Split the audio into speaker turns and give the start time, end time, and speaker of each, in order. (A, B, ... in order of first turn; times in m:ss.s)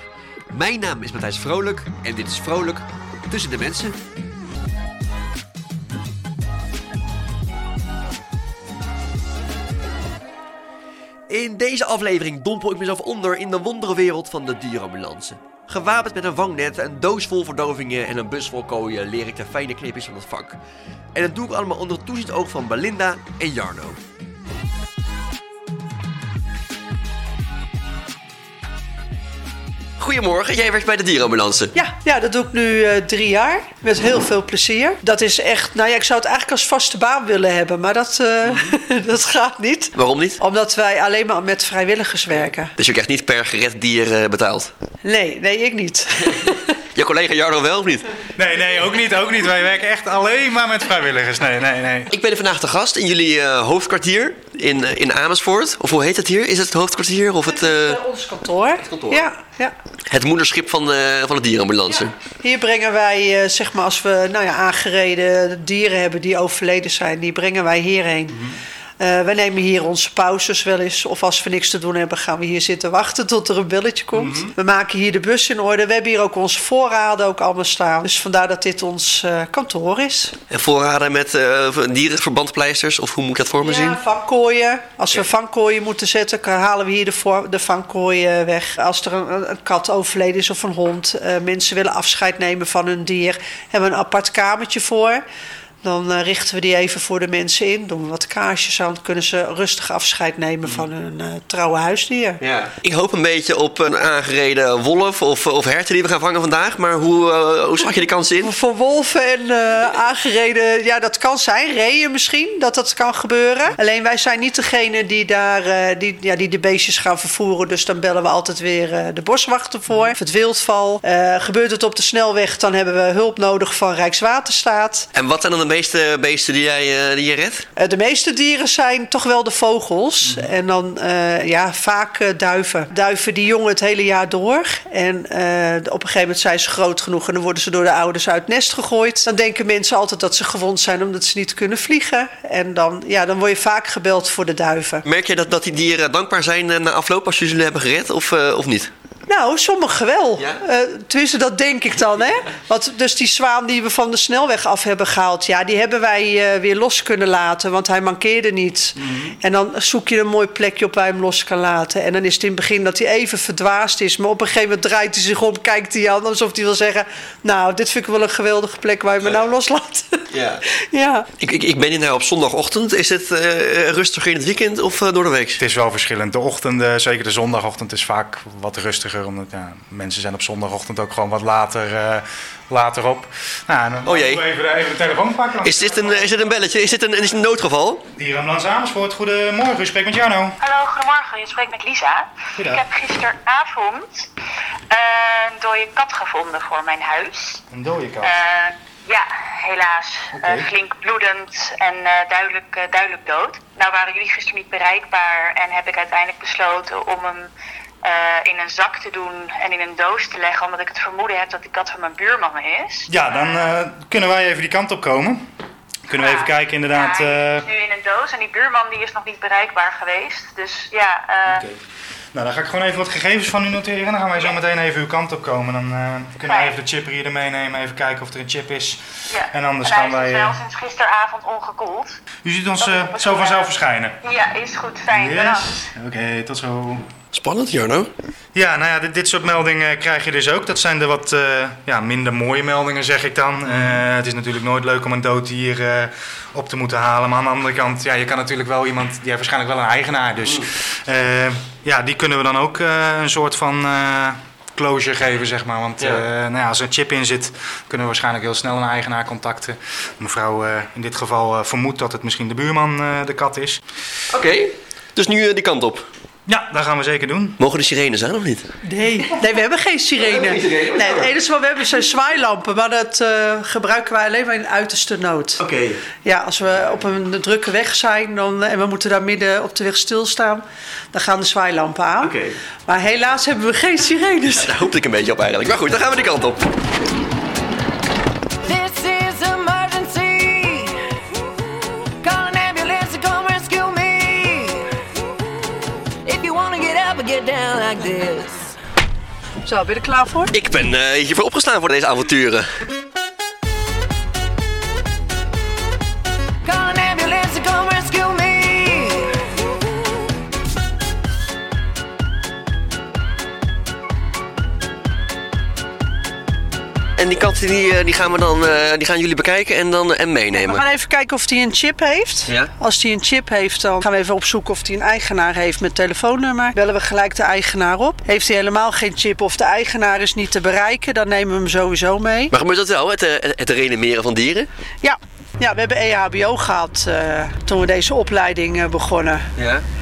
0:00.5-0:04.0 A
0:11.3-0:20.6 A
0:21.1-0:24.0 A
0:30.0-0:31.7 A
0:31.7-0:42.7 B
0:39.9-0:40.4 A
0:42.8-0:44.7 A
0:45.0-0:46.8 B
0:46.9-0:48.1 A
0:48.4-0:52.1 C
0:52.1-0:58.0 A
0:57.4-0:59.7 B
0:58.8-0:59.3 A
1:00.1-1:02.1 A
1:02.4-1:08.4 B
1:08.3-1:08.6 A
1:09.0-1:20.3 B
1:14.2-1:14.5 A
1:20.5-1:24.0 A
1:23.6-1:35.2 B
1:35.8-1:42.4 B
1:42.4-1:48.5 A
1:48.4-2:05.1 B
2:05.1-2:07.7 A
2:07.8-2:25.0 B
2:10.2-2:10.5 A
2:25.0-2:28.9 A
2:29.3-2:51.3 B
2:30.4-2:30.6 A
2:39.0-2:39.4 A
2:50.3-2:50.6 A
2:51.4-2:55.6 A
2:55.6-3:06.6 C
3:04.0-3:04.4 A
3:05.6-3:08.0 A
3:08.2-3:10.6 C
3:10.6-3:14.3 D
3:12.6-3:12.8 C
3:14.9-3:17.6 D
3:17.7-3:18.3 C
3:18.2-3:27.5 D
3:20.3-3:20.7 C
3:28.0-3:33.6 D
3:33.1-3:35.5 C
3:36.1-3:37.6 C
3:36.1-3:41.6 D
3:41.4-3:41.8 C
3:42.3-3:50.6 C
3:46.4-3:46.8 D
3:49.3-3:52.2 D
3:52.4-3:54.2 C
3:52.8-3:55.7 D
3:55.1-3:57.0 C
3:57.3-3:58.1 A
3:58.5-4:23.8 C
4:16.0-4:16.2 A
4:24.3-4:26.1 A
4:26.5-4:27.6 C
4:27.6-4:28.6 A
4:28.8-4:35.6 B
4:30.2-4:31.3 A
4:35.6-4:36.0 A
4:36.2-4:44.9 B
4:42.2-4:42.6 A
4:44.6-4:46.7 A
4:48.6-4:51.0 E
4:52.2-4:54.8 E
4:56.2-4:58.5 E
4:59.6-5:00.5 B
5:00.5-5:02.7 A
5:06.6-5:09.3 E
5:17.2-5:20.8 A
5:20.5-5:32.5 B
5:32.5-5:34.7 A
5:35.0-5:39.5 B
5:39.6-5:39.8 A